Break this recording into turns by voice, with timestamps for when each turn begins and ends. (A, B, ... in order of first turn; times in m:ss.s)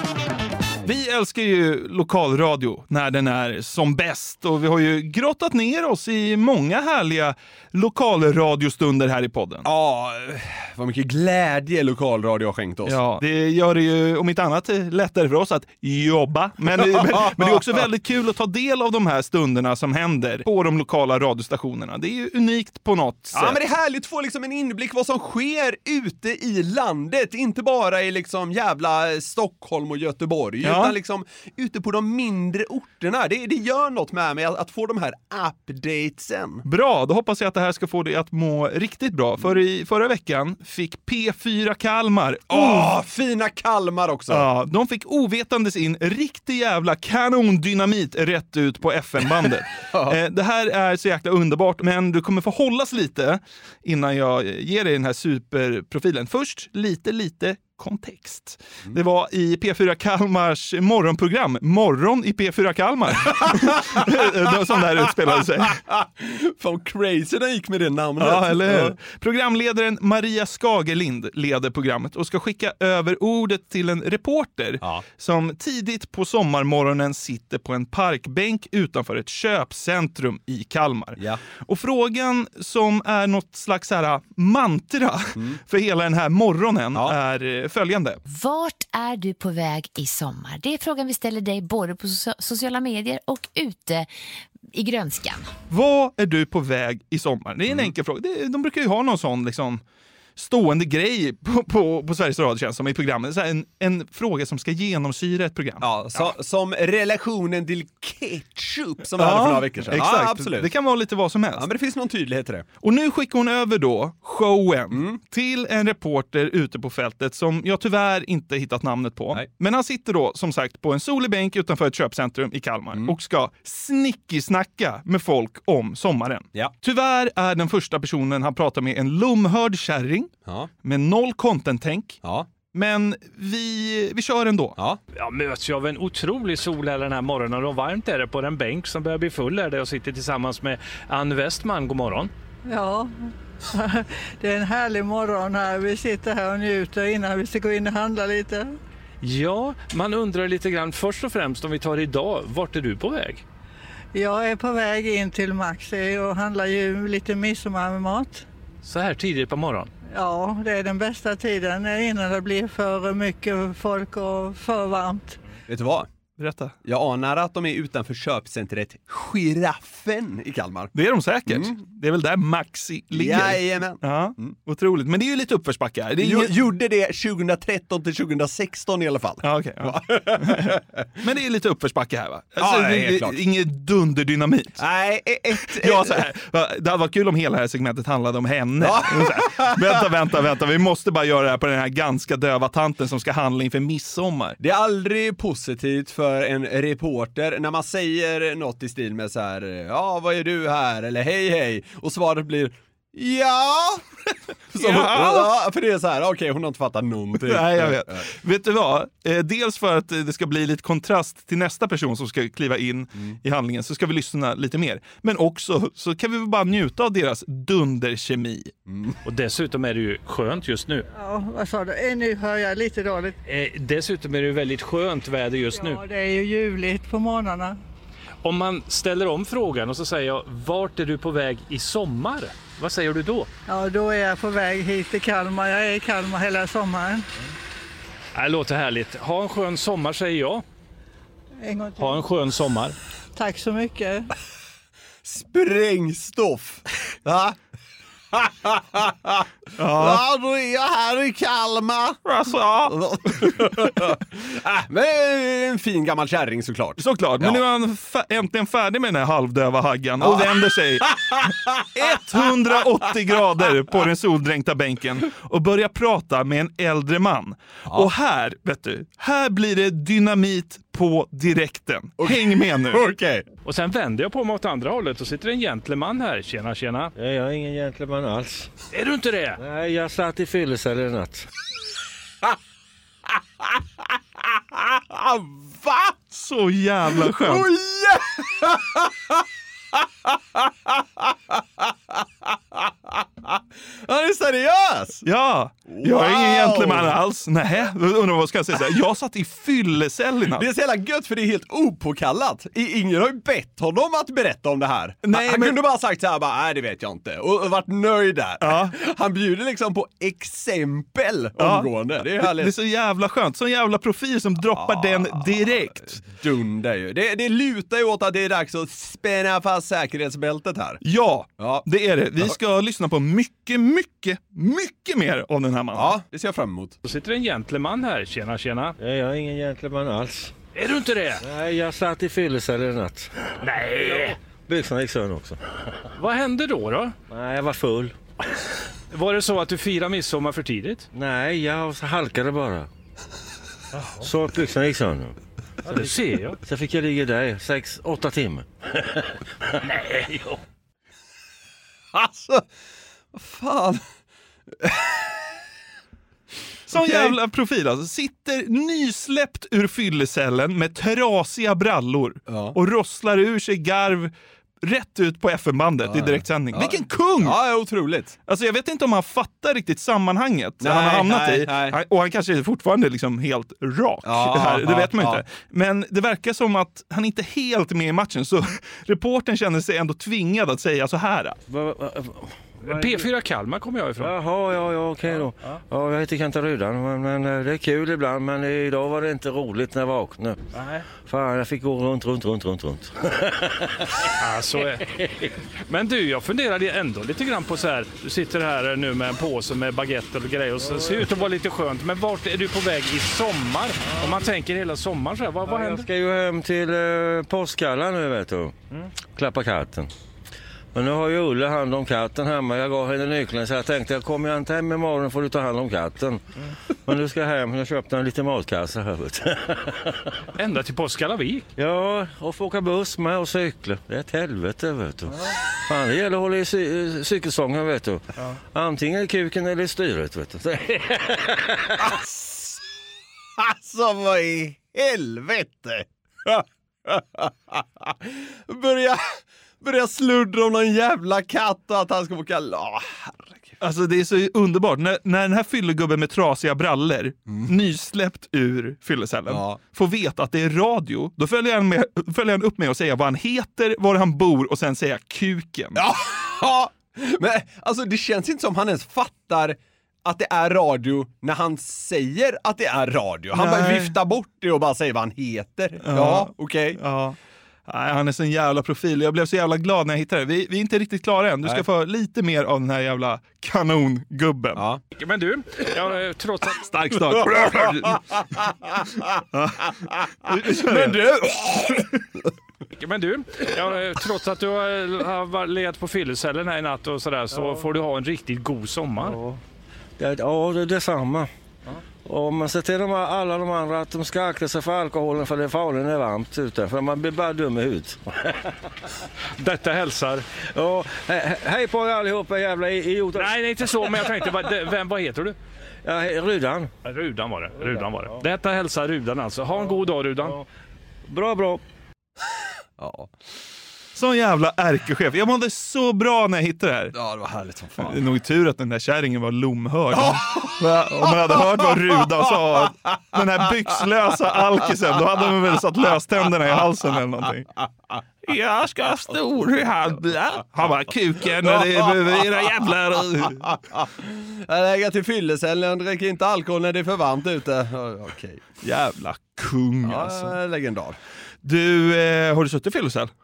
0:00.8-0:09.7 A
0:09.6-0:13.0 B
0:12.9-0:23.6 A
0:16.8-0:17.8 B
0:23.3-0:36.6 B
0:30.6-0:30.9 A
0:36.6-0:42.9 A
0:42.5-0:44.5 B
0:44.3-1:05.8 A
0:49.9-0:50.2 B
1:03.3-1:04.2 B
1:05.2-1:09.0 B
1:08.2-1:28.2 A
1:21.2-1:21.4 B
1:28.3-1:34.1 C
1:34.6-1:35.6 C
1:35.7-1:39.8 A
1:40.4-1:46.3 A
1:45.8-1:50.7 B
1:49.2-1:51.7 A
1:51.6-1:52.7 B
1:52.8-2:10.3 A
1:54.9-1:55.2 B
2:10.8-2:12.2 A
2:12.2-2:12.5 B
2:12.7-2:14.8 A
2:15.2-2:22.3 D
2:22.7-2:28.8 E
2:29.2-2:33.4 D
2:34.2-2:38.4 E
2:38.8-2:39.9 D
2:40.1-2:45.4 E
2:45.7-2:46.1 B
2:46.4-2:46.8 A
2:46.8-2:50.9 B
2:50.9-2:56.5 A
2:51.5-2:51.8 B
2:53.1-2:54.6 B
2:56.2-3:01.1 B
2:59.4-3:04.8 A
3:02.6-3:03.4 B
3:04.8-3:06.2 B
3:05.7-3:14.6 A
3:08.8-3:10.0 B
3:14.6-3:24.2 B
3:24.7-3:28.2 B
3:24.8-3:25.5 A
3:27.4-3:38.7 A
3:38.9-3:39.2 B
3:39.2-3:41.1 D
3:41.1-3:43.4 E
3:43.4-3:46.0 D
3:45.7-3:47.8 E
3:48.4-3:53.5 D
3:53.7-3:57.3 E
3:58.3-4:00.6 D
4:01.6-4:02.3 E
4:02.0-4:03.0 D
4:03.3-4:04.3 E
4:05.2-4:07.6 B
4:08.3-4:12.2 B
4:09.8-4:10.2 A
4:12.2-4:13.8 A
4:12.8-4:17.6 B
4:17.0-4:21.1 A
4:20.2-4:22.6 B
4:22.0-4:33.0 A
4:32.2-4:33.4 B
4:33.6-4:37.1 D
4:37.2-4:38.7 F
4:38.9-4:39.6 D
4:39.6-4:41.5 F
4:44.6-4:46.2 B
4:46.3-4:47.7 A
4:47.1-4:49.4 B
4:49.9-4:55.2 B
4:55.2-5:00.7 A
4:55.9-4:57.2 B
5:00.5-5:12.7 B
5:05.2-5:05.8 A
5:08.6-5:08.9 A
5:11.6-5:16.2 A
5:14.7-5:21.0 B
5:21.0-5:26.1 A
5:21.6-5:21.9 B
5:25.9-5:27.0 B
5:27.0-5:29.0 D
5:29.0-5:30.6 F
5:30.8-5:31.4 D
5:31.4-5:33.4 F
5:33.6-5:34.4 D
5:34.0-5:35.6 F
5:36.2-5:37.1 D
5:37.3-5:38.2 F
5:39.1-5:41.1 D
5:41.1-5:42.9 F
5:44.2-5:49.3 F
5:45.9-5:46.6 D
5:49.9-5:50.4 D
5:52.1-5:52.7 B
5:53.3-5:54.0 B
5:54.8-5:55.5 B
5:56.9-6:07.6 A
5:56.9-5:57.4 B
6:02.5-6:02.8 B
6:06.1-6:08.4 B
6:08.5-6:21.6 A
6:10.8-6:12.0 B
6:14.2-6:15.4 B
6:21.7-6:23.3 F
6:22.8-6:24.3 D
6:24.2-6:30.6 F
6:25.3-6:25.8 D
6:30.8-6:31.0 D
6:31.1-6:34.0 F
6:34.4-6:35.1 D
6:35.2-6:35.5 F
6:35.9-6:46.1 D
6:40.8-6:41.3 F
6:44.1-6:44.4 F
6:45.6-6:50.1 F
6:50.9-6:56.4 F
6:57.0-7:00.1 F
7:00.6-7:01.7 D
7:01.8-7:11.7 F
7:12.0-7:12.8 B
7:13.6-7:23.8 B
7:23.8-7:36.0 A
7:29.5-7:29.8 B
7:36.0-7:47.0 B
7:43.5-7:44.2 A
7:46.0-7:54.8 A
7:55.2-7:56.9 D
7:56.8-7:58.2 A
7:57.4-8:02.5 B
7:59.6-7:59.9 A
8:00.4-8:01.3 A
8:03.0-8:09.4 D
8:09.3-8:09.6 F
8:10.2-8:11.5 F
8:12.2-8:18.7 F
8:19.6-8:20.4 D
8:20.6-8:23.6 F
8:23.4-8:25.6 D
8:26.0-8:26.9 F
8:27.0-8:30.6 D
8:27.8-8:28.4 F
8:31.3-8:31.8 F
8:33.0-8:33.3 B
8:34.1-8:37.1 A
8:37.1-8:38.2 B
8:38.0-8:47.7 A
8:40.1-8:42.2 B
8:42.8-8:43.4 B
8:48.4-8:53.6 A
8:51.6-8:52.6 B
8:53.6-8:58.6 B
8:58.8-9:00.6 A
9:00.0-9:01.2 B
9:01.6-9:03.3 A